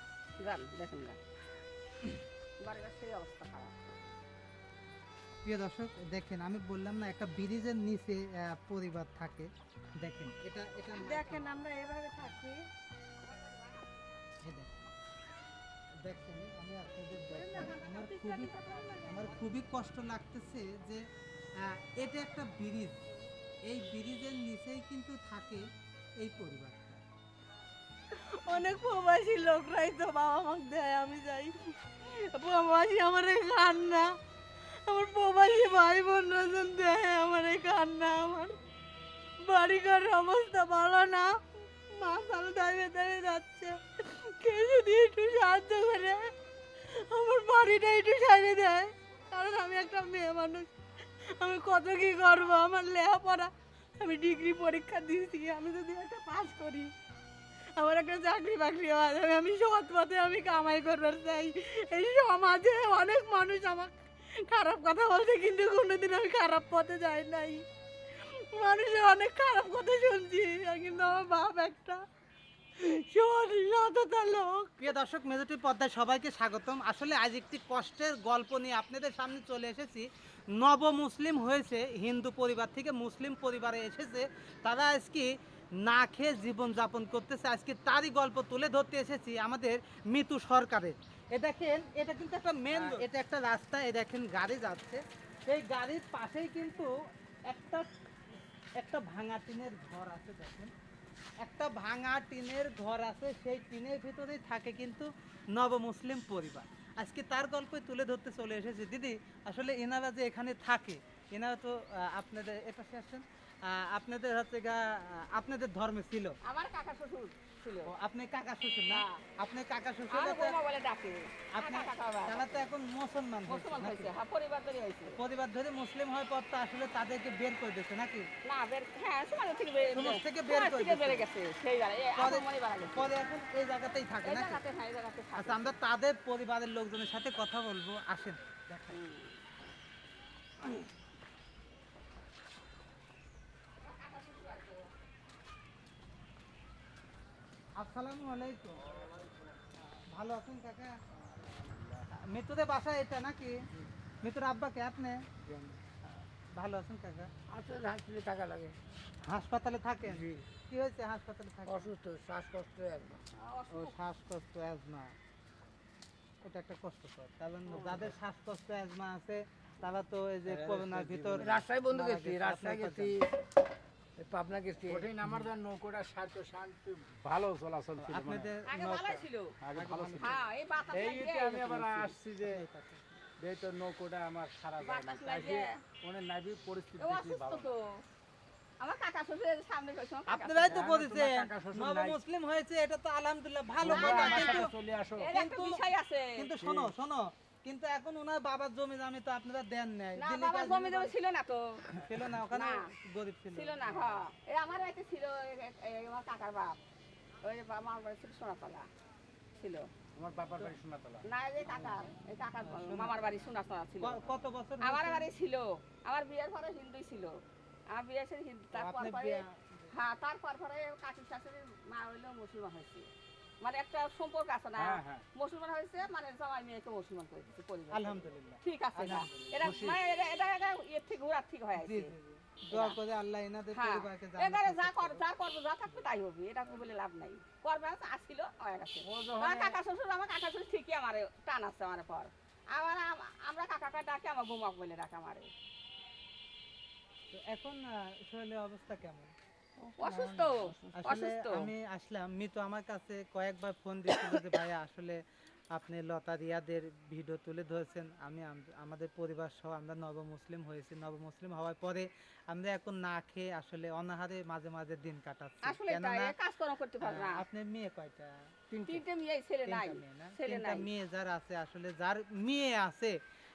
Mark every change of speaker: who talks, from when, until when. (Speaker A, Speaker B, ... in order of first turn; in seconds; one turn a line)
Speaker A: 0.4-1.2
Speaker A: 2.6-3.7
Speaker B: 5.4-9.5
Speaker B: 10.0-11.4
Speaker C: 11.0-12.6
Speaker A: 11.0-11.4
Speaker A: 13.2-13.9
Speaker B: 14.4-14.7
Speaker B: 16.0-18.5
Speaker C: 17.2-19.3
Speaker B: 19.1-21.0
Speaker B: 21.6-23.0
Speaker B: 23.7-25.6
Speaker B: 26.2-27.0
Speaker C: 28.1-34.1
Speaker C: 34.9-38.5
Speaker C: 39.4-41.3
Speaker C: 41.9-46.3
Speaker C: 46.9-50.7
Speaker C: 51.4-56.9
Speaker C: 57.8-67.6
Speaker C: 68.2-72.0
Speaker C: 72.8-74.7
Speaker B: 74.8-96.9
Speaker A: 92.7-93.0
Speaker B: 97.5-97.9
Speaker B: 98.8-100.7
Speaker B: 101.4-116.3
Speaker A: 116.4-117.9
Speaker B: 117.8-120.6
Speaker A: 118.9-119.2
Speaker A: 120.1-122.7
Speaker B: 121.5-124.1
Speaker A: 123.5-125.2
Speaker B: 125.1-128.3
Speaker A: 128.4-133.1
Speaker B: 129.9-131.2
Speaker B: 132.2-134.6
Speaker A: 134.2-135.7
Speaker B: 135.3-139.0
Speaker A: 138.9-139.4
Speaker A: 143.8-144.9
Speaker B: 147.8-148.9
Speaker B: 149.8-150.9
Speaker B: 152.3-153.6
Speaker B: 154.2-155.2
Speaker D: 155.4-155.7
Speaker B: 156.0-157.3
Speaker E: 157.5-158.8
Speaker B: 159.2-161.9
Speaker E: 160.1-160.4
Speaker E: 161.7-163.2
Speaker A: 163.4-163.9
Speaker B: 163.7-165.1
Speaker B: 166.4-173.2
Speaker A: 167.7-168.1
Speaker D: 170.4-171.6
Speaker E: 171.4-173.3
Speaker E: 174.2-175.1
Speaker D: 174.8-178.5
Speaker B: 178.0-179.2
Speaker A: 178.7-179.5
Speaker D: 179.6-180.4
Speaker B: 179.7-180.4
Speaker A: 180.2-181.9
Speaker D: 180.9-182.6
Speaker B: 181.8-183.2
Speaker D: 183.4-187.7
Speaker A: 184.8-185.8
Speaker A: 187.0-187.9
Speaker A: 188.8-190.8
Speaker B: 190.3-194.7
Speaker D: 190.7-192.2
Speaker D: 193.8-195.3
Speaker A: 193.9-194.7
Speaker A: 195.2-196.5
Speaker B: 195.3-201.1
Speaker D: 196.6-196.9
Speaker A: 200.2-201.9
Speaker B: 202.0-204.2
Speaker A: 202.5-202.9
Speaker A: 203.5-206.8
Speaker A: 207.4-208.9
Speaker A: 209.6-209.9
Speaker D: 210.2-211.2
Speaker A: 211.2-214.2
Speaker B: 212.6-213.2
Speaker B: 214.0-215.3
Speaker A: 214.8-217.4
Speaker A: 217.9-223.1
Speaker B: 218.7-219.9
Speaker A: 223.6-232.1
Speaker D: 224.8-225.2
Speaker B: 227.9-229.3
Speaker D: 229.6-230.0
Speaker B: 231.8-235.2
Speaker A: 232.7-233.0
Speaker A: 233.7-245.5
Speaker D: 239.1-239.7
Speaker B: 247.3-249.3
Speaker E: 249.8-251.0
Speaker A: 250.0-251.7
Speaker B: 250.9-255.2
Speaker B: 255.7-266.3
Speaker A: 265.6-267.4
Speaker B: 267.0-268.3
Speaker E: 268.7-269.0
Speaker A: 268.9-270.9
Speaker B: 269.6-273.1